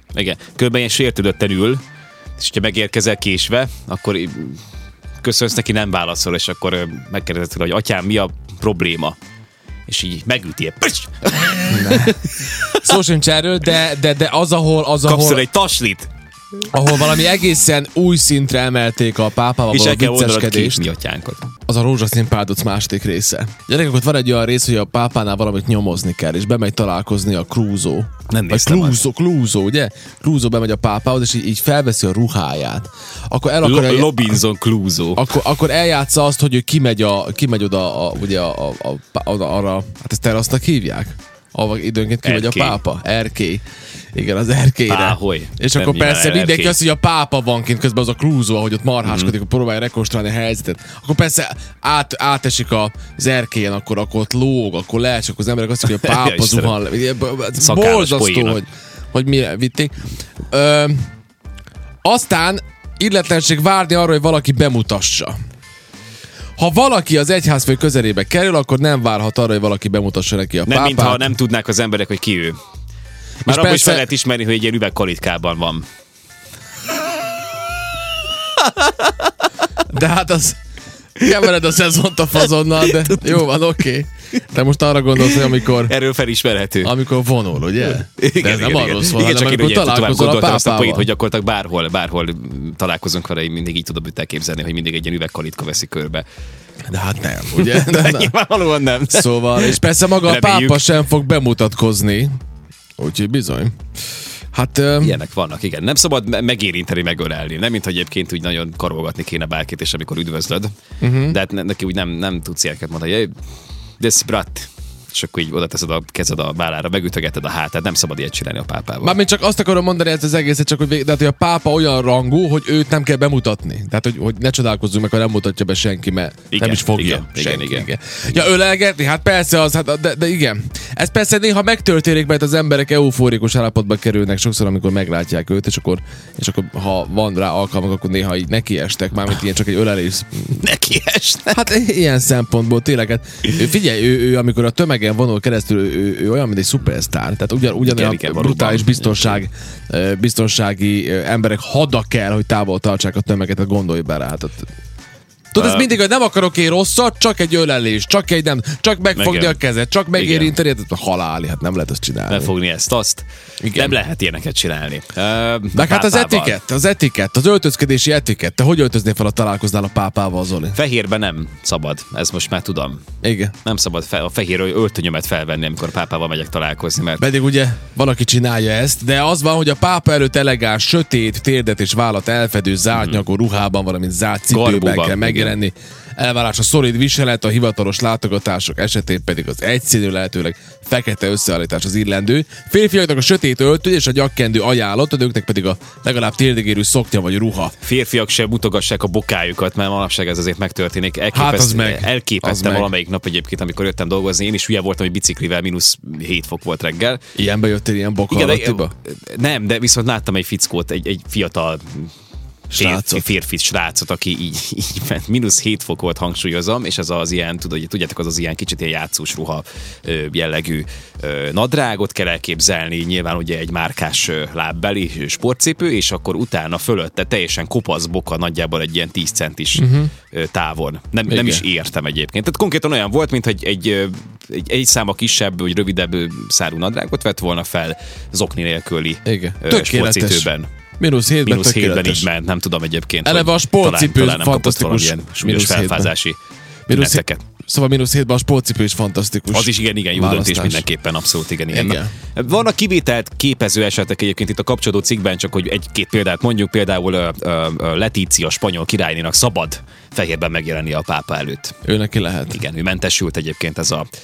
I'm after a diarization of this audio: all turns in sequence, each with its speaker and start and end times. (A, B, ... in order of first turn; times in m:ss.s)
0:00.1-0:01.8 A
0:02.4-0:04.6 A
0:05.2-0:09.2 A
0:09.9-0:12.9 A
0:11.7-0:15.4 B
0:15.0-0:16.1 A
0:16.7-0:20.9 B
0:19.7-0:21.5 A
0:21.7-0:34.4 B
0:28.3-0:29.0 A
0:33.6-0:35.3 A
0:35.2-1:01.0 B
0:42.2-0:42.8 A
0:44.9-0:46.8 A
0:49.0-0:49.3 A
0:55.8-0:56.7 A
0:57.6-0:58.6 A
1:02.0-1:05.3 B
1:06.6-1:11.3 B
1:10.6-1:12.6 A
1:13.4-1:14.0 B
1:13.4-1:15.8 A
1:18.6-1:19.2 A
1:19.8-1:20.6 B
1:21.2-1:25.9 B
1:22.8-1:23.4 A
1:25.2-1:26.9 A
1:26.8-1:31.1 B
1:27.8-1:36.2 A
1:36.9-1:38.3 B
1:37.5-1:40.9 A
1:39.1-1:42.3 B
1:43.0-1:43.8 B
1:44.5-1:45.2 B
1:45.0-1:50.7 A
1:51.0-1:51.4 B
1:51.2-1:53.3 A
1:54.0-1:59.2 A
1:59.0-2:20.6 B
2:06.5-2:07.9 A
2:20.5-2:21.6 A
2:21.5-2:34.7 B
2:27.8-2:29.4 A
2:35.5-2:42.5 B
2:35.6-2:35.9 A
2:39.2-2:39.6 A
2:40.1-2:40.5 A
2:42.3-2:46.6 A
2:43.6-2:44.0 B
2:45.7-2:50.8 B
2:50.7-2:53.0 A
2:53.2-2:53.6 B
2:53.6-2:57.2 A
2:57.2-3:17.7 B
3:04.5-3:05.6 A
3:17.8-3:27.2 A
3:21.3-3:22.9 B
3:27.4-3:28.9 B
3:28.3-3:32.1 A
3:32.7-3:33.2 B
3:32.7-4:00.7 A
3:49.7-3:50.1 B
3:51.3-3:51.6 B
3:59.2-4:00.5 B
4:01.0-4:02.2 B
4:01.4-4:06.4 A
4:03.2-4:06.1 B
4:06.9-4:10.8 B
4:06.9-4:07.4 A
4:09.5-4:21.8 A
4:11.7-4:12.1 B
4:21.8-4:22.6 B
4:22.5-4:24.1 A